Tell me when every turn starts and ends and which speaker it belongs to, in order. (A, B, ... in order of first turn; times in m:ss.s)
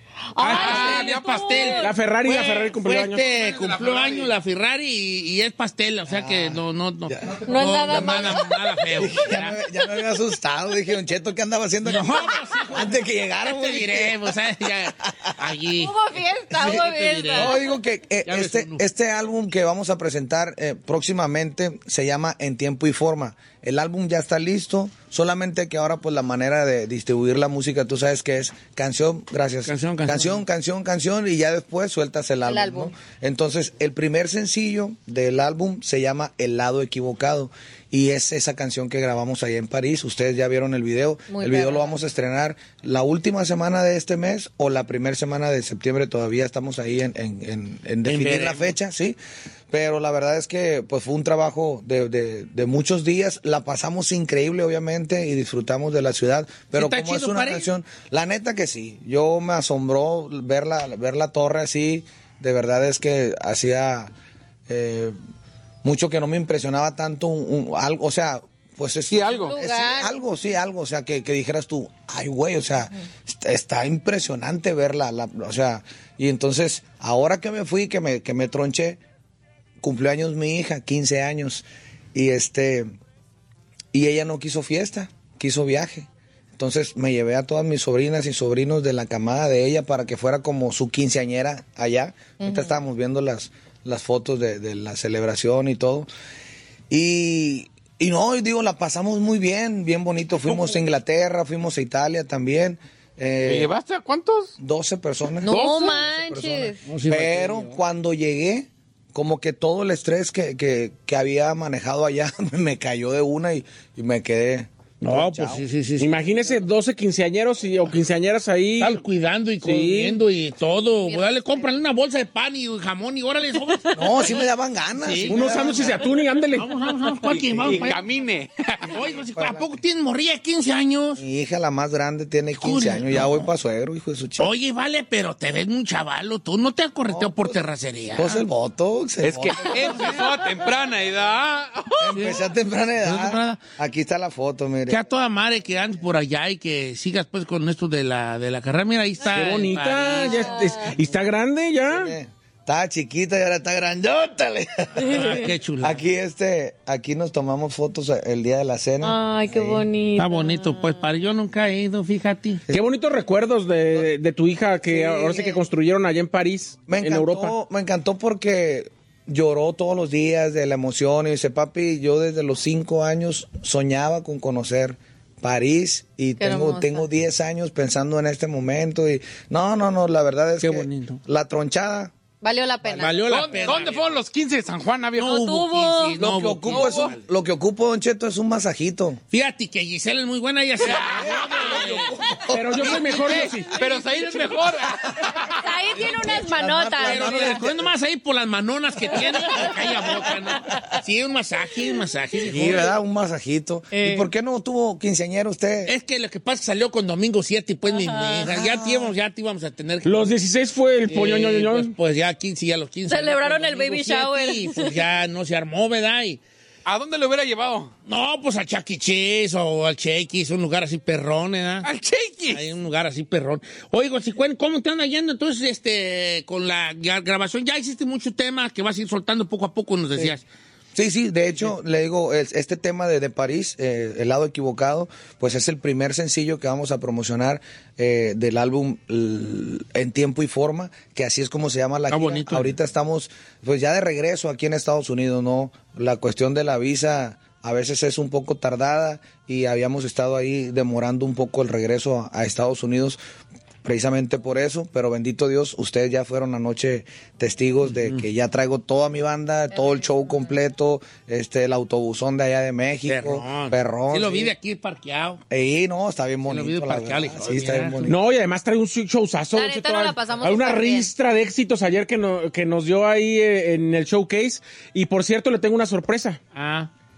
0:00.4-0:01.9 A
0:00.4-0:00.8 B
0:00.4-0:09.6 C
0:00.4-0:01.8 D
0:01.8-0:03.2 B
0:03.3-0:04.3 D
0:06.1-0:08.4 E
0:07.5-0:08.6 A
0:09.0-0:14.4 E
0:11.8-0:16.0 C
0:15.0-0:15.3 E
0:15.7-0:17.6 A
0:16.5-0:17.6 C
0:17.3-0:49.2 E
0:18.2-0:18.8 C
0:29.6-0:30.4 C
0:32.4-0:32.9 A
0:41.3-0:41.9 A
0:48.0-0:48.7 C
0:49.7-1:04.1 E
0:56.7-0:57.7 C
1:04.7-1:05.2 E
1:05.8-1:19.0 E
1:09.1-1:09.6 D
1:09.3-1:10.2 A
1:19.8-1:22.9 E
1:23.9-1:36.1 E
1:32.4-1:32.8 A
1:36.9-1:43.7 E
1:43.4-1:44.6 D
1:44.6-1:45.5 E
1:45.4-1:46.8 A
1:45.5-1:46.0 D
1:46.2-1:55.6 E
1:46.9-1:47.8 C
1:55.0-1:56.1 C
1:56.0-1:59.0 B
1:58.8-2:04.4 C
1:59.6-2:00.2 B
2:01.0-2:01.7 A
2:03.9-2:06.1 E
2:04.9-2:05.7 C
2:05.3-2:06.7 B
2:06.6-2:08.0 C
2:07.7-2:09.0 D
2:08.9-2:11.2 C
2:09.1-2:09.8 E
2:11.2-2:14.5 E
2:12.6-2:13.5 C
2:14.4-2:18.4 C
2:17.1-2:17.6 E
2:18.1-2:20.1 E
2:19.2-2:22.1 D
2:22.0-2:25.1 E
2:22.1-2:22.4 C
2:23.0-2:23.6 C
2:24.9-2:30.7 C
2:29.3-2:32.1 B
2:30.3-2:30.8 A
2:31.9-2:39.9 E
2:35.0-2:35.5 A
2:35.1-2:36.0 C
2:39.0-2:41.0 A
2:40.2-2:42.6 C
2:42.7-2:47.6 B
2:44.9-2:45.6 A
2:46.9-3:02.1 E
2:56.4-2:57.1 A
3:00.6-3:01.2 C
3:02.4-3:03.6 A
3:02.9-3:03.7 B
3:03.0-3:04.0 C
3:03.3-3:05.4 D
3:05.2-3:07.2 C
3:05.2-3:06.2 A
3:06.2-3:09.2 E
3:06.7-3:07.1 D
3:09.3-3:12.1 C
3:10.8-3:12.0 D
3:10.9-3:15.3 E
3:12.5-3:13.7 B
3:12.8-3:13.3 C
3:12.9-3:15.6 D
3:15.6-3:17.6 A
3:15.9-3:17.9 E
3:16.0-3:22.9 C
3:19.1-3:20.1 A
3:22.4-3:25.9 E
3:23.9-3:24.3 A
3:25.9-3:30.1 C
3:27.9-3:28.5 A
3:28.5-3:29.1 E
3:30.0-3:31.9 B
3:31.1-3:36.4 C
3:33.1-3:35.0 A
3:36.8-3:37.9 D
3:38.1-3:41.9 C
3:41.8-3:42.6 D
3:42.5-3:50.4 C
3:51.0-4:13.2 E
4:02.1-4:02.7 C
4:13.8-4:24.5 E
4:17.8-4:18.3 C
4:19.7-4:20.1 A
4:23.0-4:25.4 C
4:25.5-4:28.2 E
4:26.5-4:28.2 C
4:28.1-4:36.4 B
4:29.5-4:31.1 A
4:36.5-4:36.9 C